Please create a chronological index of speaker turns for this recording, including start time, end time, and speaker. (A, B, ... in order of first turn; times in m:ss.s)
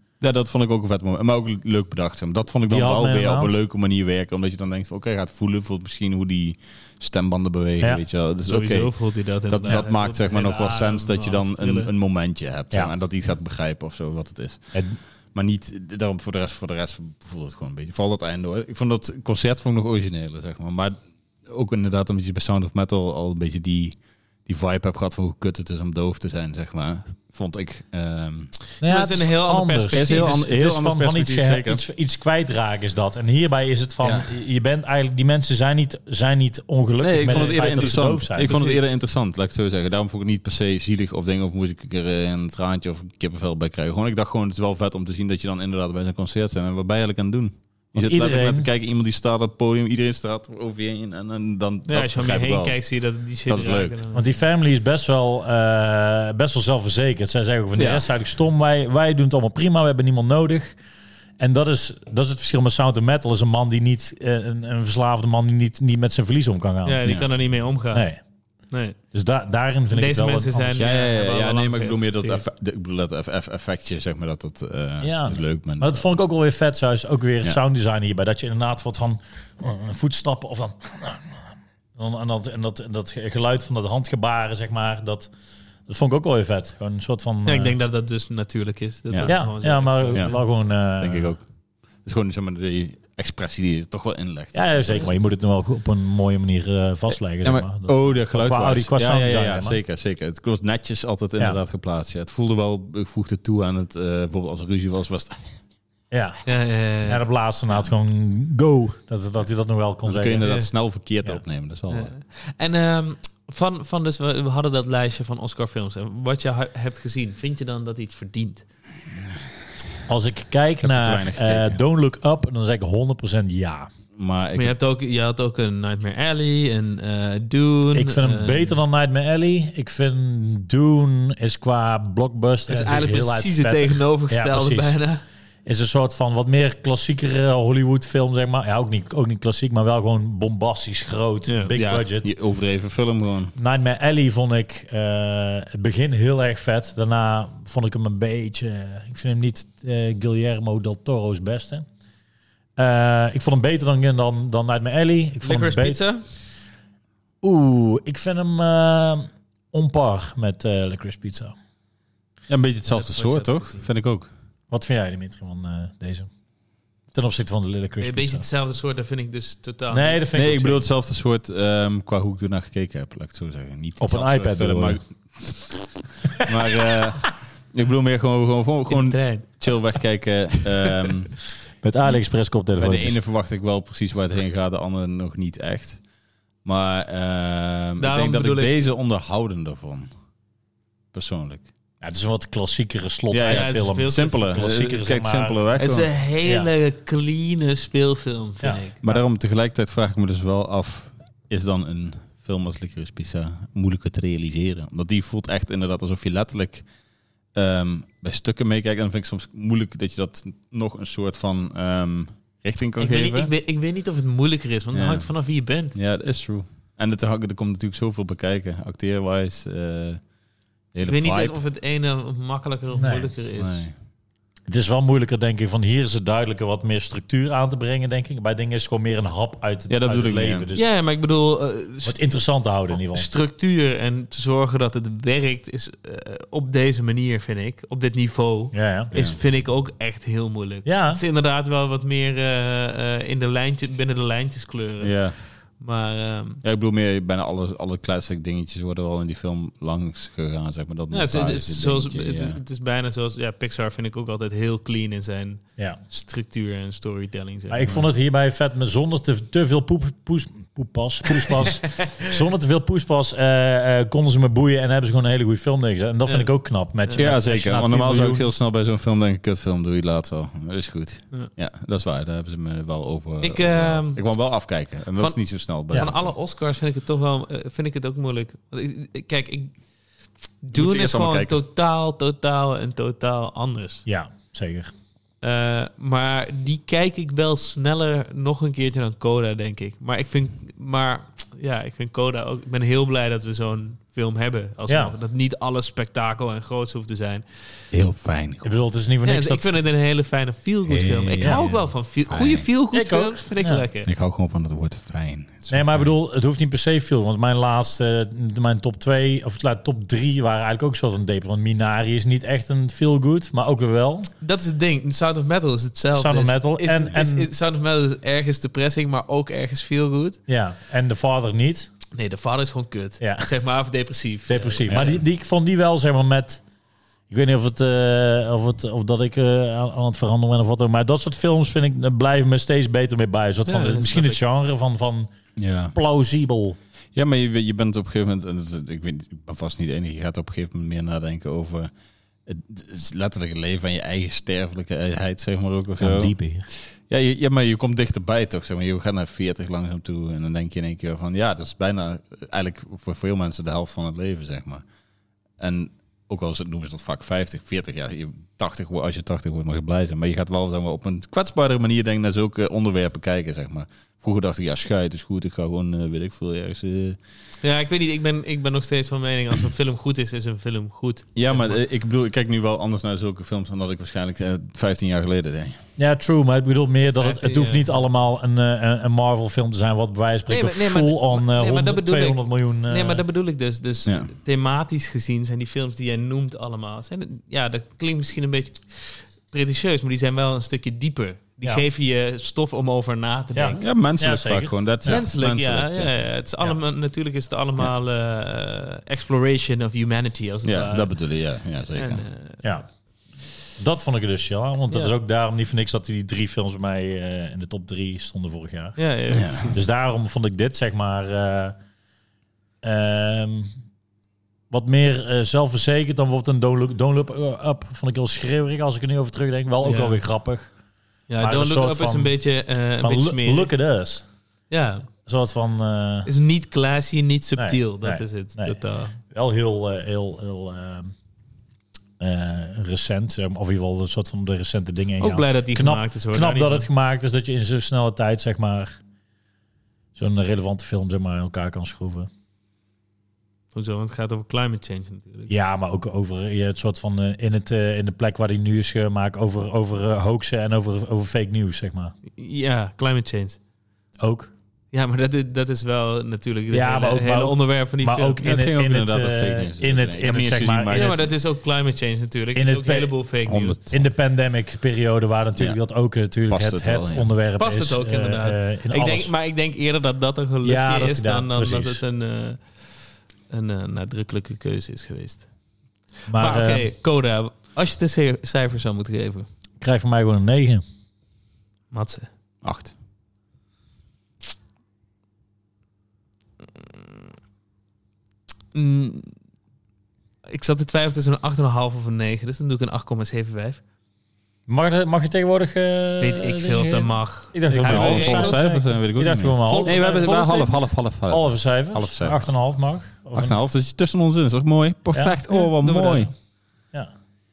0:00.2-0:08.9 A
0:02.7-0:03.6 B
0:08.4-0:11.9 C
0:09.5-0:14.7 A
0:14.7-0:15.0 B
0:15.3-0:28.5 A
0:28.8-0:30.4 C
0:28.8-0:38.6 B
0:29.9-0:31.8 A
0:34.0-0:34.3 A
0:37.0-0:52.8 A
0:37.3-0:38.8 C
0:47.9-0:48.7 B
0:51.9-0:54.4 C
0:53.5-0:54.0 A
0:54.1-1:00.8 B
0:57.8-0:58.0 A
1:01.4-1:07.2 B
1:06.8-1:08.1 C
1:07.9-1:08.2 B
1:08.7-1:09.0 C
1:09.1-1:10.8 B
1:09.9-1:12.4 C
1:10.8-1:16.0 A
1:15.0-1:25.3 B
1:25.9-1:27.8 B
1:27.5-1:30.4 C
1:29.1-1:29.4 A
1:29.3-1:31.4 B
1:31.0-1:31.5 A
1:32.0-1:35.3 A
1:34.5-1:39.8 B
1:37.4-1:45.6 A
1:46.1-1:46.4 B
1:46.4-1:47.2 C
1:47.0-1:50.4 B
1:50.0-1:52.1 A
1:50.4-1:50.7 C
1:51.9-1:58.6 C
2:00.1-2:03.9 B
2:00.8-2:01.8 A
2:04.2-2:04.8 A
2:04.6-2:08.8 C
2:07.9-2:15.0 B
2:12.7-2:15.2 C
2:15.7-2:22.3 B
2:21.5-2:21.7 C
2:21.7-2:23.5 A
2:23.6-2:31.9 B
2:32.8-2:36.0 B
2:35.4-2:36.2 C
2:37.4-2:41.6 B
2:42.5-2:44.3 A
2:42.9-2:43.9 C
2:44.7-2:46.3 B
2:47.1-2:48.4 B
2:48.0-2:50.2 C
2:49.9-2:50.9 B
2:50.3-2:55.7 A
2:54.0-2:55.0 B
2:56.3-3:01.4 A
2:58.9-2:59.7 C
3:01.8-3:03.2 B
3:02.8-3:06.0 A
3:06.6-3:10.1 A
3:08.0-3:08.9 C
3:11.1-3:11.7 A
3:12.0-3:15.6 B
3:13.3-3:16.1 A
3:13.5-3:14.5 C
3:15.8-3:19.0 C
3:16.4-3:16.7 B
3:18.6-3:19.2 B
3:19.0-3:26.9 A
3:27.5-3:33.5 A
3:33.0-3:36.0 C
3:34.9-3:35.3 A
3:35.9-3:40.2 A
3:40.9-3:41.6 A
3:41.1-3:43.8 C
3:43.0-3:43.3 B
3:43.6-3:43.9 A
3:44.7-3:50.9 B
3:49.9-3:50.7 A
3:50.8-3:52.2 C
3:52.0-3:53.3 B
3:52.9-4:06.6 C
3:58.7-3:59.1 B
4:00.8-4:01.2 B
4:05.0-4:05.4 A
4:06.6-4:12.6 A
4:11.1-4:18.0 C
4:17.7-4:28.5 B
4:21.5-4:22.4 C
4:27.2-4:36.3 A
4:33.4-4:34.2 C
4:35.2-4:39.7 C
4:40.6-4:44.0 C
4:40.7-4:41.6 A
4:44.1-4:44.9 B
4:45.4-4:57.4 C
4:54.9-4:55.1 B
4:57.9-4:58.7 A
4:58.6-4:59.8 B
4:59.2-5:04.1 C
5:00.8-5:02.7 A
5:02.9-5:03.9 B
5:04.0-5:06.1 A
5:05.7-5:14.3 B
5:14.4-5:20.4 C
5:16.1-5:17.5 B
5:20.5-5:21.9 B
5:22.2-5:25.2 C
5:23.2-5:23.5 B
5:24.5-5:26.6 B
5:27.3-5:35.3 B
5:33.7-5:34.4 C
5:35.6-5:36.0 A
5:35.9-5:36.8 B
5:37.2-5:41.9 A
5:42.5-5:54.8 A
5:46.0-5:46.7 B
5:55.6-6:07.2 A
6:07.6-6:11.8 C
6:11.4-6:15.8 A
6:16.0-6:23.2 B
6:17.2-6:17.9 C
6:20.5-6:33.8 C
6:24.0-6:24.3 A
6:33.5-6:35.2 B
6:33.8-6:36.1 A
6:35.1-6:41.2 C
6:40.6-6:42.2 A
6:42.0-6:42.6 C
6:43.8-6:49.0 B
6:49.0-6:49.8 C
6:49.3-6:49.8 A
6:49.7-6:51.8 B
6:52.8-6:53.7 B
6:54.7-7:00.7 B
6:59.8-7:00.2 C
7:01.3-7:03.7 C
7:01.4-7:02.4 B
7:03.0-7:04.2 B
7:04.7-7:05.1 C
7:05.2-7:06.3 B
7:06.3-7:09.2 C
7:07.6-7:11.1 B
7:12.2-7:19.0 B
7:15.2-7:16.9 C
7:20.2-7:22.3 B
7:23.7-7:25.5 C
7:25.5-7:32.2 B
7:32.3-7:33.6 C
7:34.2-7:34.5 B
7:34.9-7:38.4 C
7:36.7-7:41.2 B
7:38.4-7:41.2 A
7:40.9-7:43.8 C
7:42.6-7:43.2 B
7:43.5-7:44.0 A
7:43.9-7:49.3 B
7:46.5-7:47.3 A
7:47.6-7:52.9 C
7:50.6-7:52.0 B
7:53.5-7:55.5 C
7:56.3-7:56.9 B
7:56.3-7:59.5 C
7:59.8-8:00.8 B
8:01.9-8:02.3 C
8:02.6-8:02.9 A
8:08.7-8:09.4 C
8:10.5-8:13.8 C
8:14.7-8:23.6 B
8:16.2-8:18.7 C
8:17.8-8:22.4 A
8:19.6-8:20.7 C
8:23.4-8:26.3 A
8:25.1-8:25.5 B
8:25.5-8:26.3 C